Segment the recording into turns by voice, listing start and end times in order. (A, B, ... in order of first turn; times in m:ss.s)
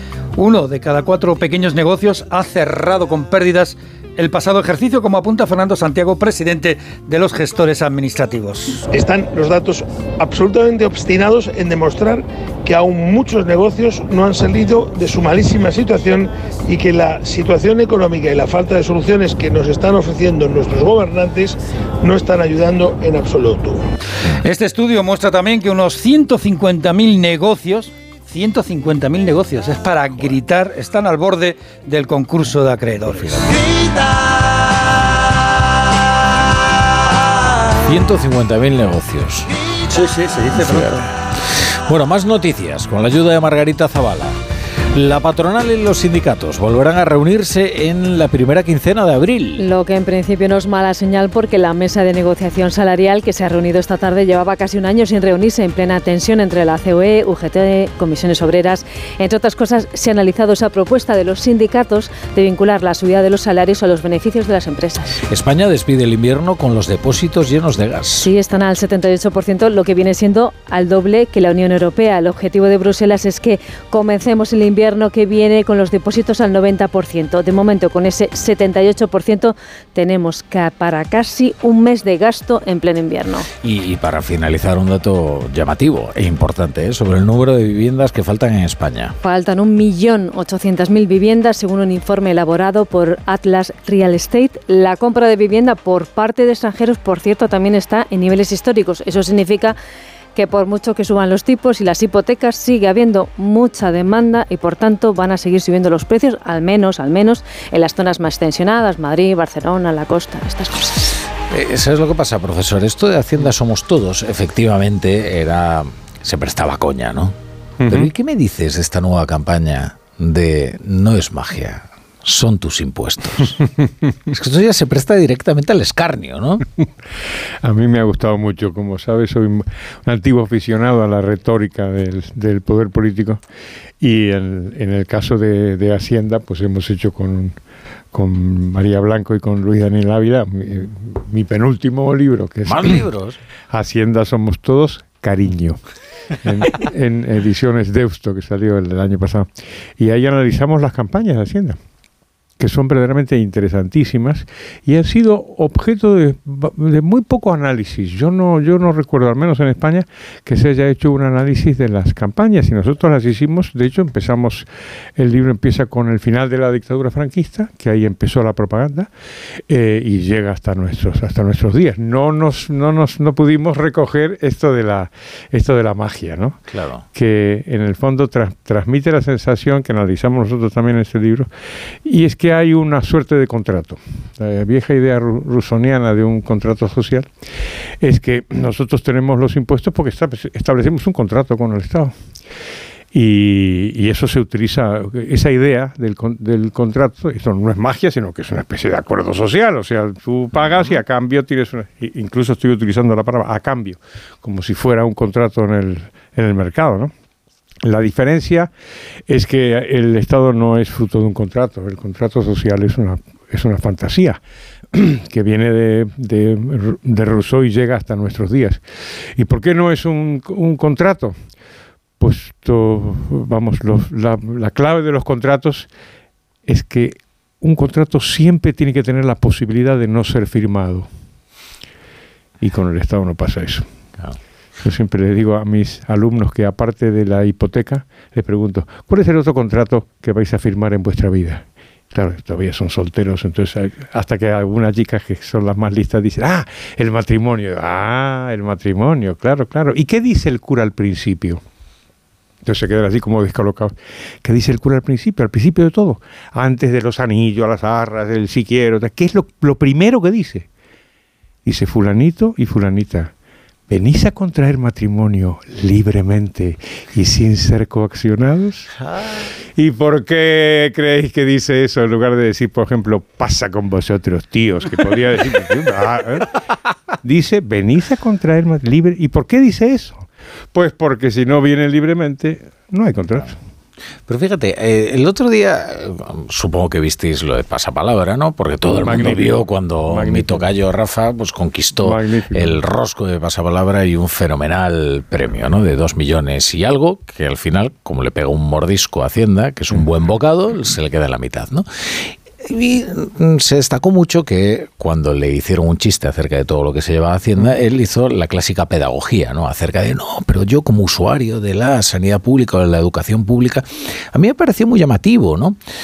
0:00.4-0:08.9 A
0:08.9-0:23.9 B
0:24.4-0:33.6 A
0:33.1-0:33.6 C
0:37.9-0:39.5 C
0:39.9-0:41.1 A
0:40.5-0:44.4 C
0:44.9-0:49.7 C
0:49.6-1:05.2 D
1:05.3-1:08.3 C
1:08.2-1:23.5 D
1:23.6-1:29.2 C
1:29.2-1:39.8 D
1:40.4-1:51.1 D
1:51.5-2:03.6 C
1:57.8-1:58.1 E
2:04.3-2:06.6 C
2:07.6-2:13.4 E
2:14.0-2:17.6 E
2:18.1-2:23.1 E
2:22.6-2:23.4 C
2:23.7-2:25.8 E
2:26.4-2:31.8 E
2:32.6-2:49.1 E
2:49.7-2:56.6 E
2:56.7-2:57.0 C
2:57.1-3:01.5 E
3:02.0-3:07.3 E
3:08.0-3:12.2 E
3:13.1-3:27.1 E
3:20.6-3:21.0 C
3:27.8-3:28.7 E
3:29.3-3:34.4 E
3:34.9-3:38.8 E
3:39.4-3:41.4 E
3:42.2-3:45.9 E
3:46.7-3:51.1 E
3:52.6-3:53.9 E
3:54.8-4:11.6 E
4:12.6-4:20.7 E
4:21.6-4:23.3 E
4:23.9-4:28.9 E
4:29.7-4:36.5 E
4:37.2-4:43.6 E
4:44.3-5:15.8 C
4:48.9-4:50.7 E
4:52.0-4:52.8 E